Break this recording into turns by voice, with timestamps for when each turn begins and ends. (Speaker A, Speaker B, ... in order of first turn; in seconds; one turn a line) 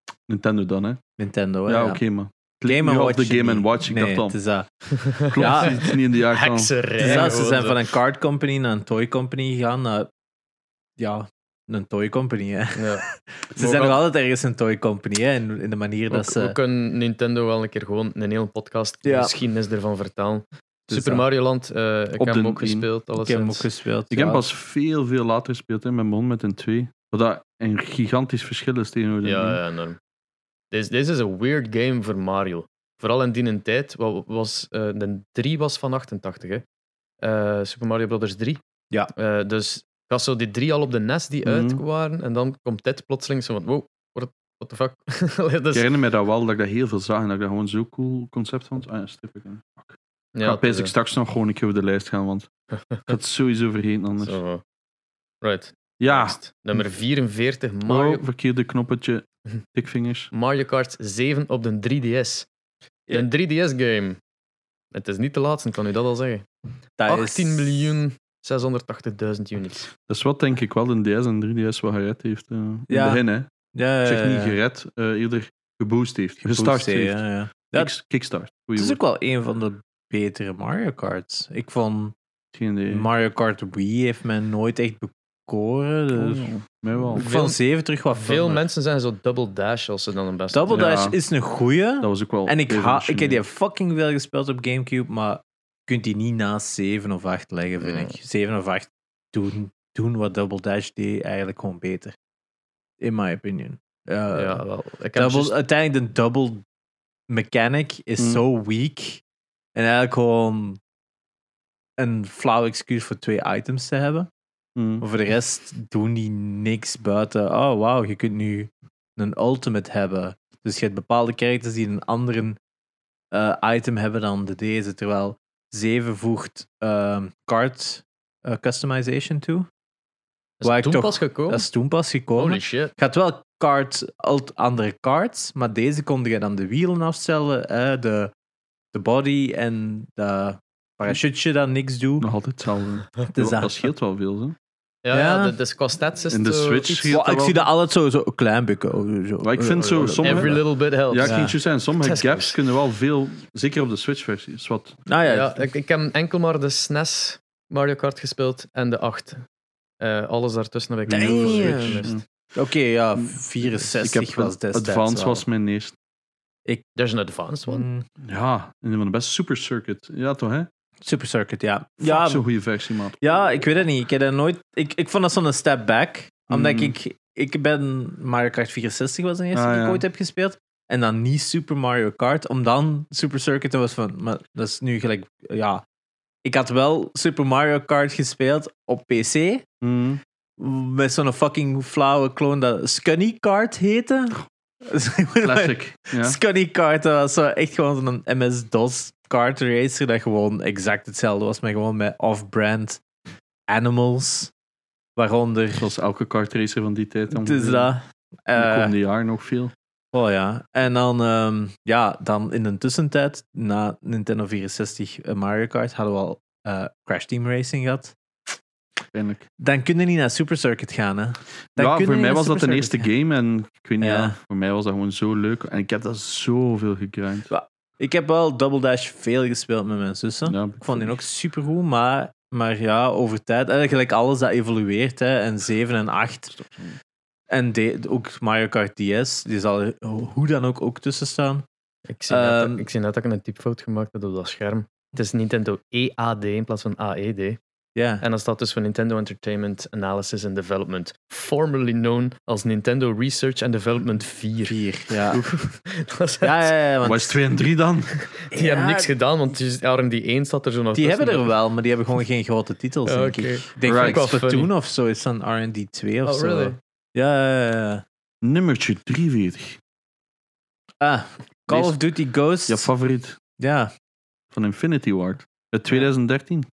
Speaker A: 0.3-1.0
Speaker B: 1.2-2.0
Speaker A: 1.6-4.3
Speaker B: 2.6-5.8
Speaker C: 5.0-7.8
Speaker A: 5.3-7.4
Speaker B: 7.0-10.1
Speaker B: 11.0-16.5
Speaker C: 12.7-13.0
Speaker C: 13.6-14.0
Speaker C: 16.1-23.6
Speaker B: 19.0-19.3
Speaker B: 20.9-21.2
Speaker A: 22.2-22.9
Speaker B: 23.2-24.4
Speaker A: 24.1-29.6
Speaker C: 29.2-30.0
Speaker C: 30.7-36.6
Speaker C: 37.2-38.6
Speaker C: 39.1-45.9
Speaker A: 41.4-41.8
Speaker A: 45.7-52.5
Speaker C: 50.3-50.9
Speaker A: 53.0-54.4
Speaker C: 54.2-54.6
Speaker C: 55.4-58.2
Speaker A: 56.0-56.4
Speaker A: 57.9-60.3
Speaker C: 60.3-62.5
Speaker C: 63.1-64.2
Speaker C: 64.9-66.5
Speaker B: 67.0-67.9
Speaker C: 67.0-69.9
Speaker A: 70.1-73.5
Speaker B: 72.9-74.6
Speaker A: 74.0-77.2
Speaker B: 76.4-77.9
Speaker A: 77.7-79.0
Speaker B: 78.8-82.1
Speaker A: 82.5-83.1
Speaker B: 82.9-86.5
Speaker A: 86.1-87.2
Speaker B: 87.1-88.6
Speaker C: 87.1-87.6
Speaker C: 88.1-90.8
Speaker B: 90.5-102.1
Speaker A: 90.7-91.2
Speaker A: 92.0-93.4
Speaker C: 97.8-98.1
Speaker B: 103.0-104.6
Speaker C: 104.3-105.5
Speaker B: 105.1-106.6
Speaker B: 107.3-109.2
Speaker A: 108.2-108.4
Speaker B: 109.7-110.8
Speaker B: 112.0-114.3
Speaker A: 114.8-115.0
Speaker B: 115.0-122.6
Speaker B: 123.3-129.7
Speaker C: 130.6-131.7
Speaker B: 130.6-138.3
Speaker C: 132.3-132.9
Speaker B: 138.9-142.3
Speaker A: 142.2-144.6
Speaker B: 143.3-143.8
Speaker C: 145.0-147.2
Speaker B: 145.1-145.6
Speaker A: 146.3-147.6
Speaker B: 147.1-150.6
Speaker A: 149.4-155.0
Speaker C: 149.8-151.4
Speaker B: 151.2-151.5
Speaker C: 152.0-152.6
Speaker B: 155.1-155.6
Speaker C: 155.2-159.4
Speaker C: 160.0-162.2
Speaker A: 161.1-162.2
Speaker B: 161.1-165.4
Speaker A: 163.2-165.9
Speaker C: 166.9-167.9
Speaker B: 167.7-168.1
Speaker A: 168.2-170.7
Speaker B: 171.0-172.5
Speaker A: 172.0-173.8
Speaker B: 173.2-185.8
Speaker A: 176.5-176.9
Speaker A: 179.5-180.0
Speaker B: 186.4-189.6
Speaker A: 189.8-190.2
Speaker B: 190.6-203.0
Speaker A: 195.4-196.4
Speaker B: 203.7-204.5
Speaker B: 205.2-205.9
Speaker A: 205.8-207.9
Speaker B: 207.3-208.9
Speaker A: 208.5-209.7
Speaker B: 210.1-218.1
Speaker A: 219.1-219.4
Speaker B: 219.6-223.1
Speaker A: 221.8-227.5
Speaker B: 224.0-224.3
Speaker B: 227.5-236.5
Speaker A: 230.4-231.2
Speaker A: 236.5-237.0
Speaker B: 237.5-241.6
Speaker C: 242.1-247.6
Speaker B: 242.3-242.8
Speaker B: 247.9-248.2
Speaker C: 248.2-256.7
Speaker B: 254.7-255.4
Speaker B: 256.4-257.4
Speaker A: 257.0-258.2
Speaker C: 258.4-261.5
Speaker B: 258.5-259.1
Speaker B: 260.9-268.0
Speaker C: 263.1-264.7
Speaker A: 263.8-264.3
Speaker C: 266.2-266.8
Speaker A: 268.4-269.8
Speaker B: 271.0-272.9
Speaker A: 271.7-272.0
Speaker A: 272.7-273.4
Speaker B: 273.6-273.9
Speaker A: 274.5-276.7